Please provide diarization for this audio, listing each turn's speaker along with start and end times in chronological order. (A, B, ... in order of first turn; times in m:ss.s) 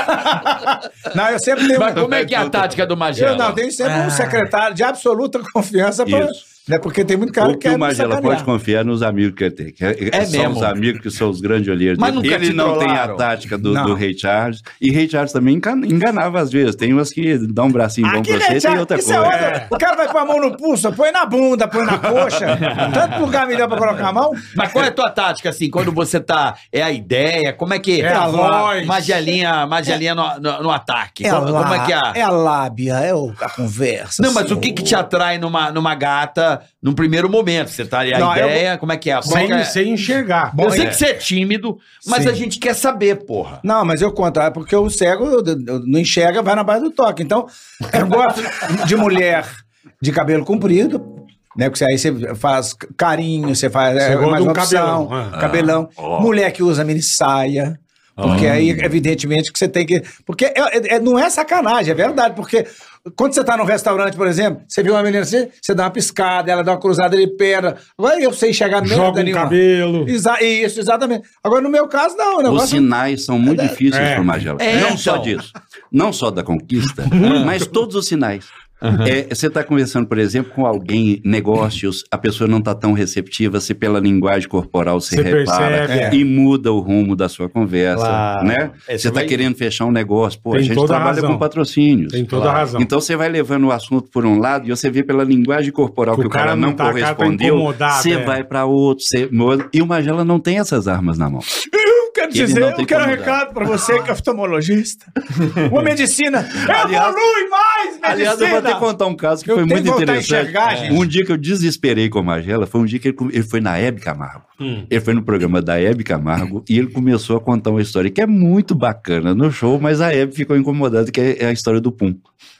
0:00.1-0:02.4 A
0:01.7-0:03.6 B
0:02.0-0:02.6 C
0:03.1-0:08.5 A
0:03.8-0:04.5 D
0:06.0-0:06.4 C
0:07.4-0:19.8 C
0:10.1-0:10.8 B
0:12.0-0:13.2 B
0:13.7-0:14.0 A
0:18.0-0:24.5 A
0:19.2-0:19.7 D
0:22.0-0:22.7 C
0:22.5-0:23.2 B
0:24.5-0:32.2 B
0:28.0-0:29.2 D
0:28.0-0:28.9 A
0:31.2-0:35.0 A
0:34.2-0:39.8 B
0:38.1-0:38.7 A
0:39.2-0:39.7 A
0:39.2-0:40.6 D
0:40.5-0:41.0 A
0:40.5-0:43.6 B
0:42.0-0:42.4 A
0:43.6-0:51.0 A
0:51.5-1:12.8 A
0:54.0-0:55.3 D
0:55.3-0:56.3 C
0:58.2-0:58.8 C
0:58.2-0:58.6 B
1:08.8-1:10.1 D
1:12.4-1:41.5 C
1:13.4-1:13.8 A
1:13.9-1:14.3 D
1:14.6-1:15.4 B
1:17.1-1:17.6 D
1:17.2-1:17.5 B
1:18.8-1:19.1 B
1:25.1-1:26.2 D
1:25.8-1:26.2 A
1:27.9-1:29.4 B
1:30.5-1:31.4 D
1:32.1-1:32.9 D
1:32.3-1:32.7 B
1:36.1-1:38.4 D
1:41.5-1:48.9 A
1:42.3-1:43.4 C
1:46.6-1:47.2 C
1:48.0-2:02.2 C
1:49.4-1:51.1 A
1:50.7-1:51.0 B